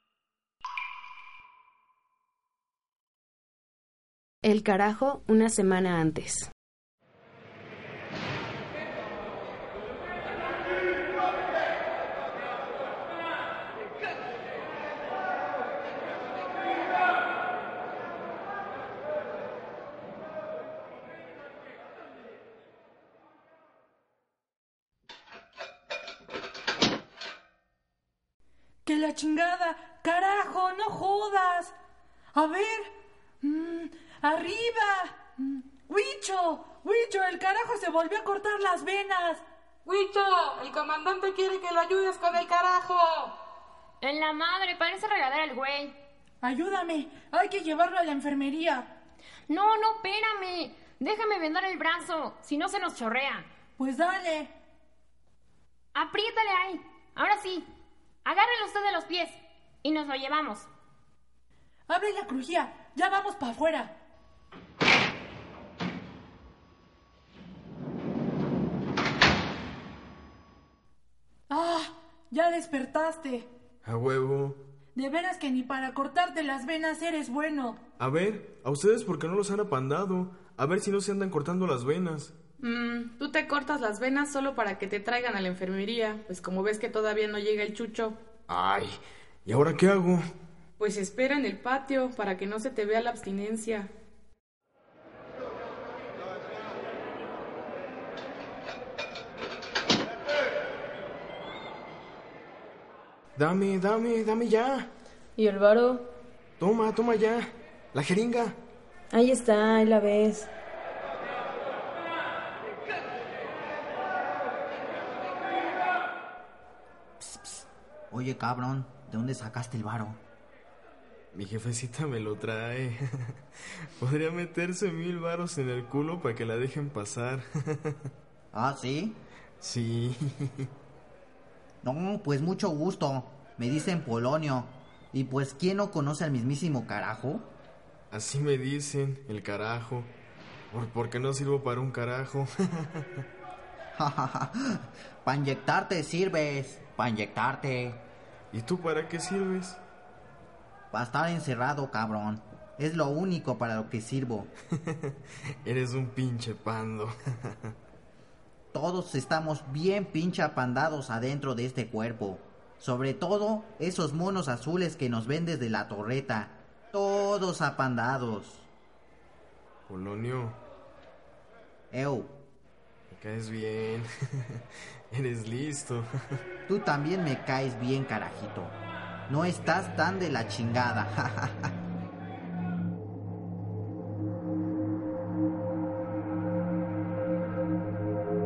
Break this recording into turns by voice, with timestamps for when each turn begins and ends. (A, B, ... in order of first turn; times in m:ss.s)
0:04.4-0:06.5 A
0:28.9-0:31.7 B
0:32.3-0:32.9 B
0:33.4-0:39.4 B
0:39.9-0:43.4 C
0:44.0-0:46.0 D
0:46.4-0:48.9 B
0:49.5-0:53.5 D
0:53.8-0:54.5 B
0:56.0-0:57.6 D
0:58.2-1:00.7 D
1:01.9-1:03.9 B
1:11.5-1:13.5 B
1:13.8-1:14.6 E
1:15.0-1:17.8 B
1:18.0-1:22.3 E
1:22.6-1:28.2 C
1:28.5-1:30.2 E
1:30.8-1:33.9 C
1:43.4-1:44.9 E
1:45.4-1:46.1 F
1:46.6-1:48.6 E
1:49.1-1:50.5 F
1:57.2-2:00.2 G
2:01.3-2:03.0 E
2:04.0-2:08.0 E
2:08.5-2:09.2 G
2:09.6-2:10.7 E
2:11.8-2:17.5 G
2:18.1-2:20.1 E
2:20.7-2:23.2 E
2:24.0-2:28.0 G
2:28.5-2:29.8 E
2:30.9-2:34.5 G
2:35.6-2:37.7 E
2:38.7-2:48.7 G
2:49.9-2:50.6 E
2:51.9-2:52.4 G
2:53.1-2:54.6 E
2:55.1-2:56.0 E
2:56.7-2:58.8 G
2:59.3-3:01.7 G